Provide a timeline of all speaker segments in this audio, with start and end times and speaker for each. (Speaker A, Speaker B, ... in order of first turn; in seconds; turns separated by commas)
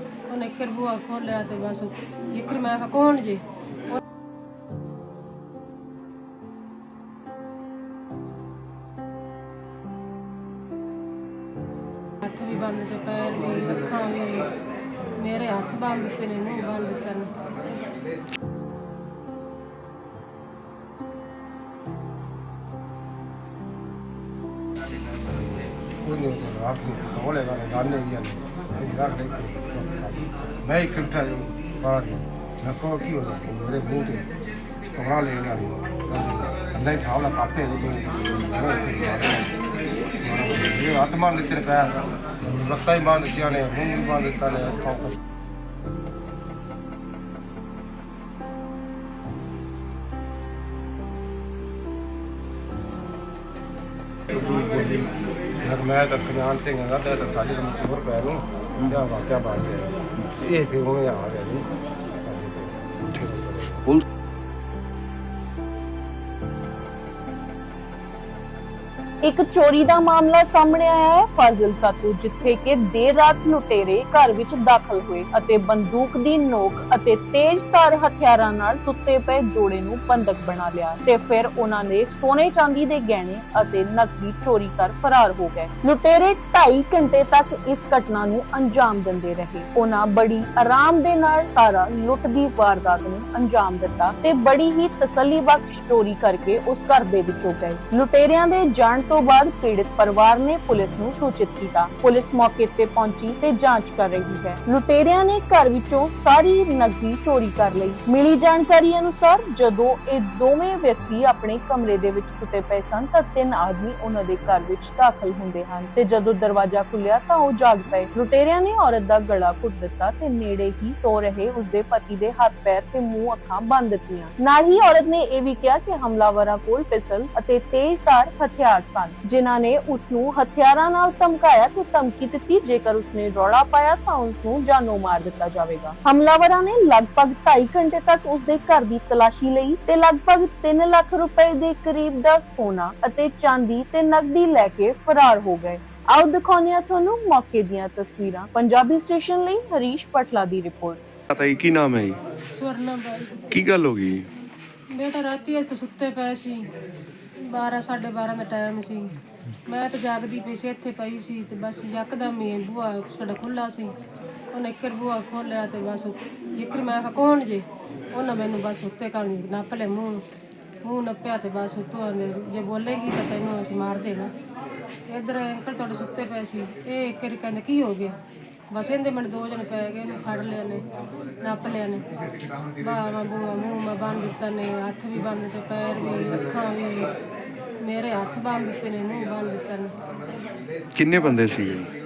Speaker A: 0.3-3.4, Speaker A: 12.2-14.5, Speaker A: 15.1-17.3, Speaker B: 25.3-34.3, Speaker B: 34.9-39.6, Speaker B: 40.2-45.2, Speaker B: 54.3-61.6, Speaker B: 62.2-63.9, Speaker C: 69.2-151.0, Speaker D: 151.3-152.2, Speaker A: 152.5-153.5, Speaker D: 153.5-154.3, Speaker A: 154.9-156.7, Speaker A: 157.4-159.1, Speaker A: 159.7-163.9, Speaker A: 164.5-170.2, Speaker A: 170.8-174.3, Speaker A: 175.1-178.2, Speaker A: 178.7-180.8, Speaker A: 181.4-182.0, Speaker A: 182.8-187.1, Speaker A: 187.8-190.0, Speaker D: 190.9-191.9, Speaker A: 191.2-191.5